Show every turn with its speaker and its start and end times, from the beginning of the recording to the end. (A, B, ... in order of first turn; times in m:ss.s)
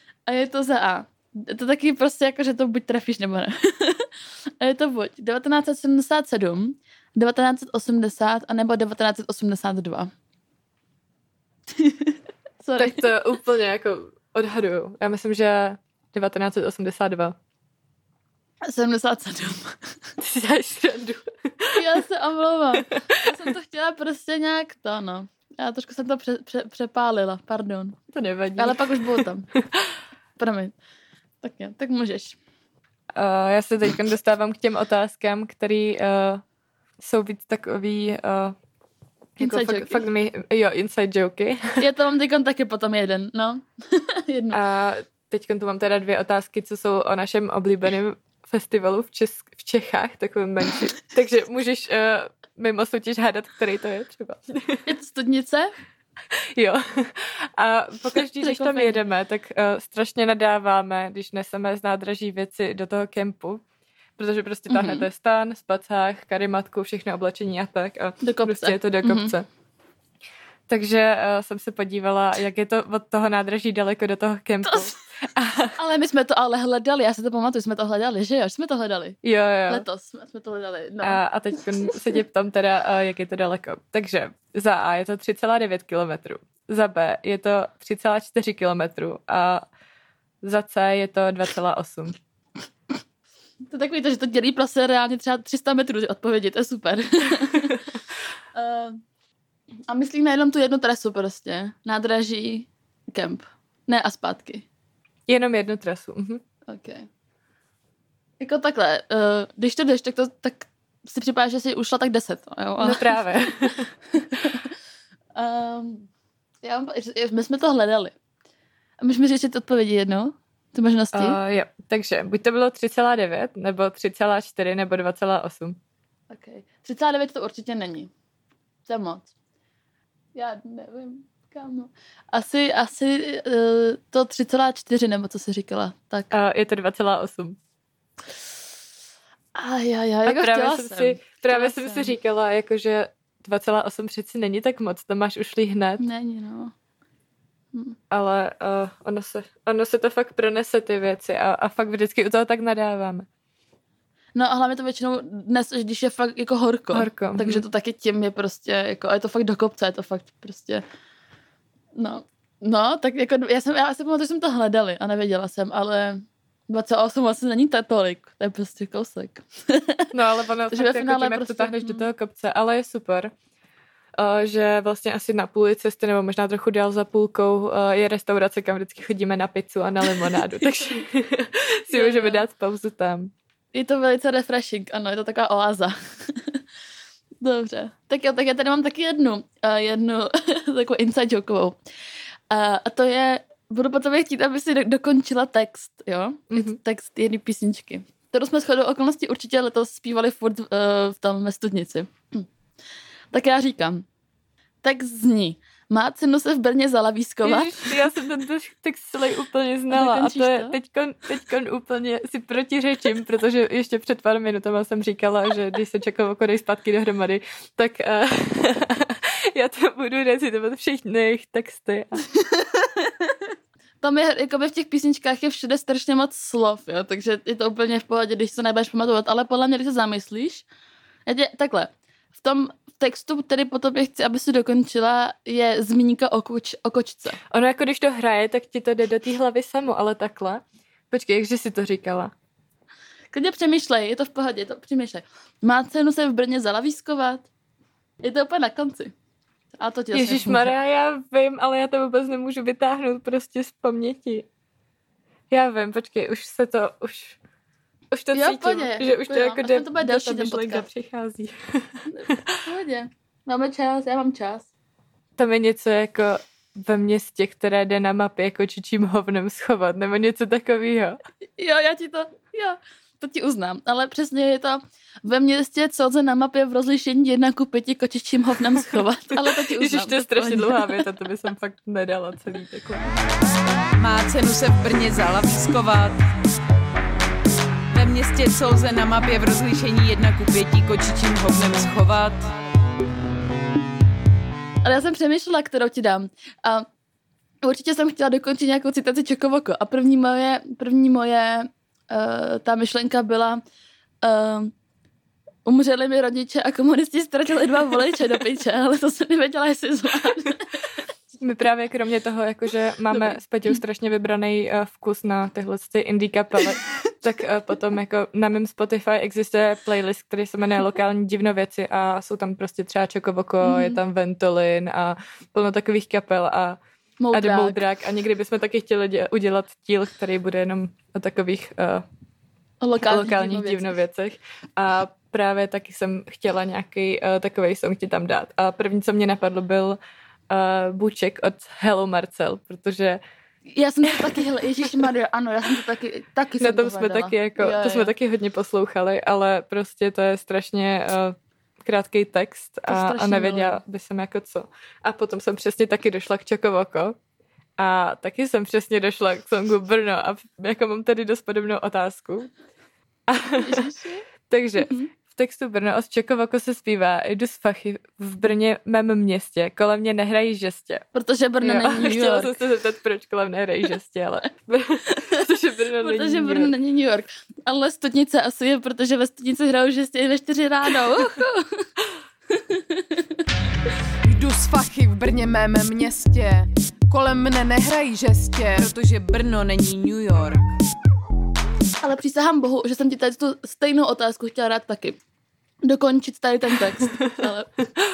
0:00.3-0:10.1 A
0:11.8-0:13.1 A
0:12.8-0:17.4 B
0:18.6-0:20.1 A
0:20.2-0:21.8 B
0:21.7-0:28.0 A
0:28.1-0:29.9 B
0:28.6-0:29.5 A
0:30.4-0:30.8 A
0:31.4-0:32.4 A
0:33.2-0:36.4 B
0:37.0-0:38.6 B
0:39.4-0:41.8 B
0:39.4-0:40.0 A
0:41.8-0:44.6 A
0:44.5-0:54.9 B
0:54.9-0:55.7 A
0:56.3-1:03.6 B
0:58.4-0:59.0 A
1:04.2-1:09.5 B
1:04.7-1:05.1 A
1:08.2-1:09.3 A
1:10.7-1:15.8 B
1:14.6-1:14.9 A
1:15.8-1:21.2 A
1:19.2-1:19.8 B
1:21.0-1:29.7 B
1:30.4-1:32.2 B
1:33.7-1:38.0 A
1:38.5-1:39.0 A
1:39.9-1:44.6 A
1:45.3-1:46.4 B
1:46.7-1:47.1 A
1:48.4-1:54.7 A
1:52.8-1:53.9 B
1:55.4-1:56.1 A
1:56.6-1:58.1 A
1:59.0-2:01.4 A
2:01.1-2:05.8 B
2:06.3-2:08.1 A
2:08.9-2:09.3 A
2:10.4-2:16.3 A
2:16.3-2:17.6 B
2:19.6-2:22.2 A
2:20.2-2:26.0 B
2:26.0-2:26.7 A
2:28.1-2:33.3 B
2:34.4-2:40.8 A
2:36.9-2:37.6 B
2:42.0-2:50.1 A
2:50.1-2:53.3 B
2:50.7-2:52.0 A
2:54.2-3:03.3 B
3:01.9-3:02.4 A
3:03.7-3:06.6 A
3:07.4-3:11.8 A
3:12.5-3:22.5 A
3:16.5-3:16.8 B
3:23.3-3:24.0 A
3:24.8-3:27.9 A
3:27.4-3:42.2 B
3:29.9-3:30.8 A
3:42.7-3:43.4 A
3:44.0-3:50.7 A
3:51.3-3:57.4 A
3:57.5-4:02.3 B
4:03.3-4:07.5 A
4:08.2-4:09.1 A
4:09.8-4:10.7 A
4:10.1-4:14.5 B
4:15.5-4:17.4 B
4:18.1-4:22.4 B
4:18.3-4:20.9 A
4:22.1-4:24.7 A
4:25.4-4:31.2 B
4:31.6-4:41.0 A
4:39.5-4:43.1 B
4:44.0-4:46.2 C
4:47.9-4:52.5 C
4:54.8-4:56.9 A
4:57.6-5:03.6 A
5:04.2-5:04.7 A
5:05.6-5:10.7 A
5:11.4-5:26.8 B
5:23.6-5:24.0 A
5:27.2-5:27.8 A
5:27.3-5:32.0 B
5:32.8-5:34.0 A
5:33.0-5:40.0 B
5:40.5-5:43.2 B
5:43.7-5:48.1 A
5:46.6-5:57.2 B
5:52.9-5:53.8 A
5:57.8-6:02.5 B
6:03.3-6:03.9 B
6:03.6-6:04.3 A
6:04.5-6:11.0 B
6:11.1-6:12.6 A
6:11.6-6:16.7 B
6:16.0-6:21.8 A
6:22.5-6:23.4 A
6:24.2-6:30.7 C
6:32.0-6:35.2 A
6:35.8-6:37.7 A